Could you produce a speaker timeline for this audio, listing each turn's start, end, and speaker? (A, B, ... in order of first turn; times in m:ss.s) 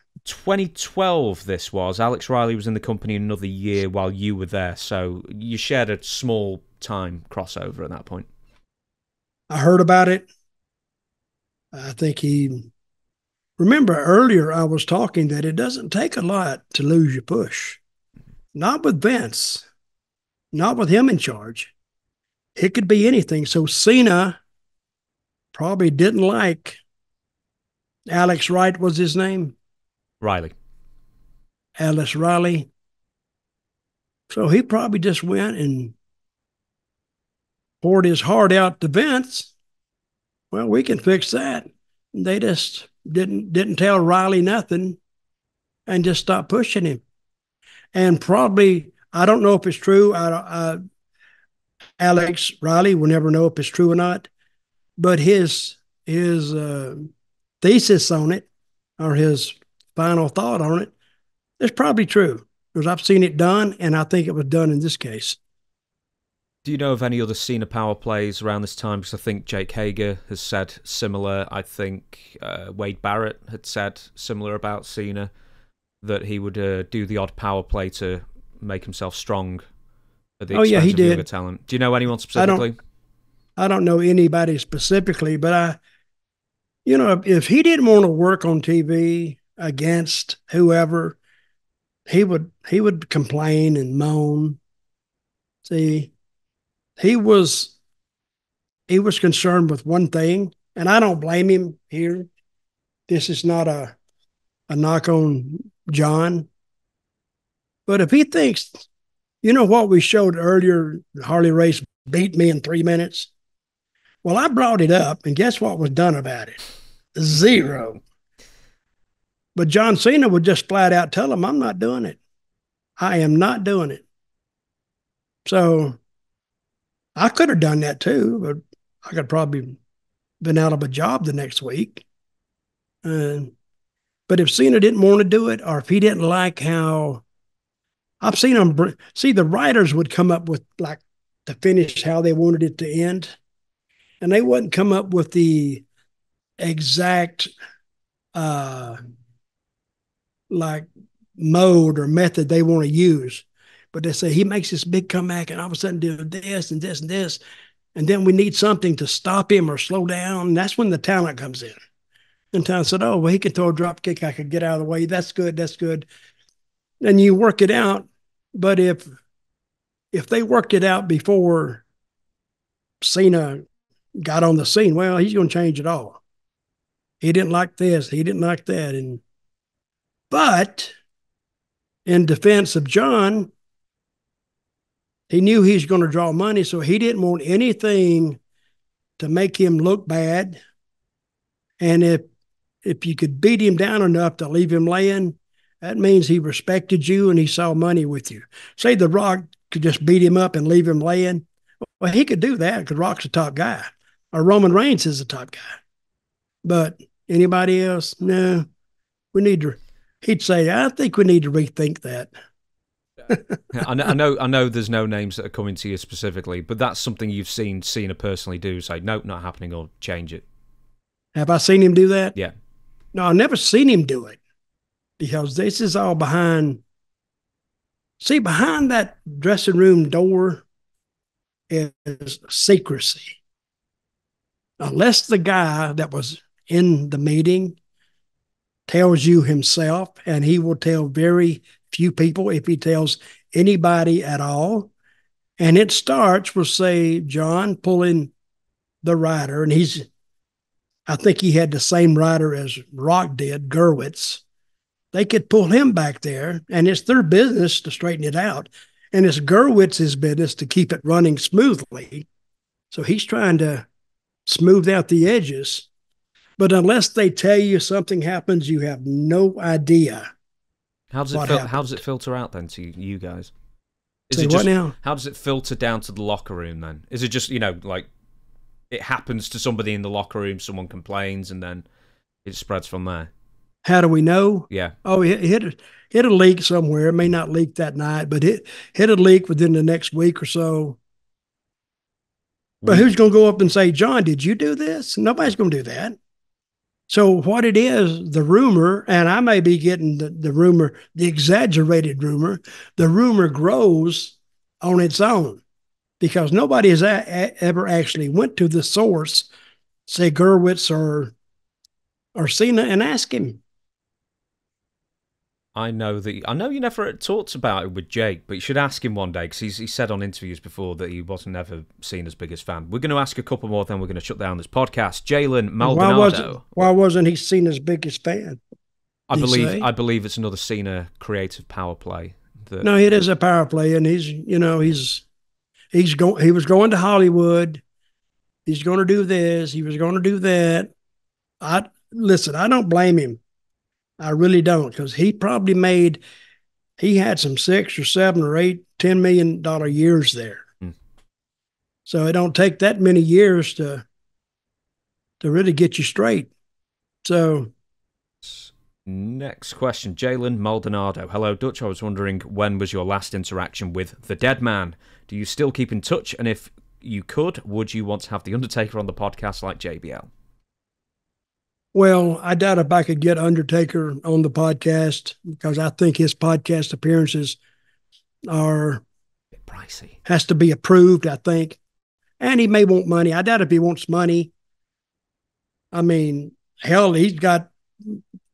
0:00.2-0:08.3 A
0:09.5-0:10.3 B
0:11.7-0:12.7 B
0:13.6-0:17.8 B
0:18.5-0:19.6 B
0:20.5-0:21.7 B
0:22.6-0:24.4 B
0:25.5-0:26.8 B
0:28.1-0:29.6 B
0:30.2-0:30.5 A
0:31.8-0:32.7 B
0:34.3-0:35.9 B
0:37.8-0:39.5 B
0:40.5-0:45.0 B
0:45.9-0:47.0 B
0:47.9-0:50.8 B
0:52.0-0:54.3 B
0:55.0-0:57.1 B
0:57.6-0:58.5 B
0:59.0-1:00.9 B
1:01.6-1:05.4 B
1:06.6-1:15.3 A
1:16.0-1:19.6 A
1:20.4-1:22.7 A
1:20.5-1:21.2 B
1:22.4-1:22.6 B
1:23.6-1:25.8 B
1:26.8-1:31.2 B
1:32.1-1:34.6 B
1:35.6-1:36.1 B
1:37.0-1:37.7 B
1:38.9-1:42.3 B
1:43.1-1:44.0 B
1:44.7-1:46.5 B
1:47.9-1:48.9 B
1:49.4-1:53.3 B
1:54.2-1:56.6 B
1:57.1-1:58.0 B
1:59.6-2:02.2 B
2:03.0-2:04.0 B
2:05.4-2:06.0 B
2:07.2-2:09.8 B
2:10.4-2:12.0 B
2:13.0-2:13.5 B
2:14.3-2:17.2 B
2:18.2-2:23.4 B
2:24.2-2:25.8 B
2:26.6-2:27.5 B
2:28.3-2:29.0 B
2:30.5-2:30.8 B
2:31.4-2:37.4 B
2:37.9-2:41.8 B
2:42.5-2:46.1 B
2:47.0-2:49.1 B
2:50.1-2:51.8 B
2:53.0-2:53.6 B
2:54.2-2:56.2 B
2:57.2-2:59.2 B
3:00.3-3:00.9 B
3:02.0-3:03.5 B
3:05.3-3:08.4 B
3:09.2-3:10.6 B
3:11.8-3:12.2 B
3:12.8-3:21.4 B
3:22.0-3:25.8 B
3:26.6-3:28.6 B
3:29.3-3:32.3 B
3:33.3-3:33.6 B
3:33.7-3:40.4 A
3:41.3-3:42.3 B
3:43.1-3:44.4 B
3:45.2-3:46.8 B
3:48.2-3:50.6 B
3:51.7-3:53.4 B
3:54.8-3:57.8 B
3:58.9-4:04.9 B
4:05.6-4:08.3 B
4:09.0-4:10.0 B
4:11.1-4:14.4 B
4:15.1-4:22.3 B
4:22.9-4:23.9 B
4:24.4-4:25.9 B
4:26.6-4:30.3 B
4:31.1-4:33.5 A
4:31.3-4:31.9 B
4:34.3-4:38.1 A
4:34.3-4:34.9 B
4:38.9-4:41.8 A
4:42.4-4:43.3 A
4:43.8-4:51.0 B
4:44.7-4:45.0 A
4:52.8-4:53.1 A
4:52.8-4:56.2 B
4:57.1-5:05.6 B
5:06.2-5:09.5 B
5:10.1-5:11.3 B
5:12.4-5:13.6 B
5:15.7-5:26.9 A
5:25.8-5:28.6 B
5:29.3-5:32.9 A
5:29.3-5:29.8 B
5:32.8-5:35.2 B
5:35.9-5:37.8 B
5:38.6-5:40.9 B
5:41.6-5:43.4 B
5:44.2-5:46.2 B
5:47.0-5:50.6 B
5:52.0-5:54.0 B
5:55.4-5:56.5 B
5:57.2-5:57.7 B
5:58.4-6:10.3 A
6:11.9-6:17.6 B
6:18.5-6:19.0 B
6:19.7-6:20.2 A
6:20.2-6:21.8 B
6:22.4-6:24.5 B
6:25.9-6:28.2 B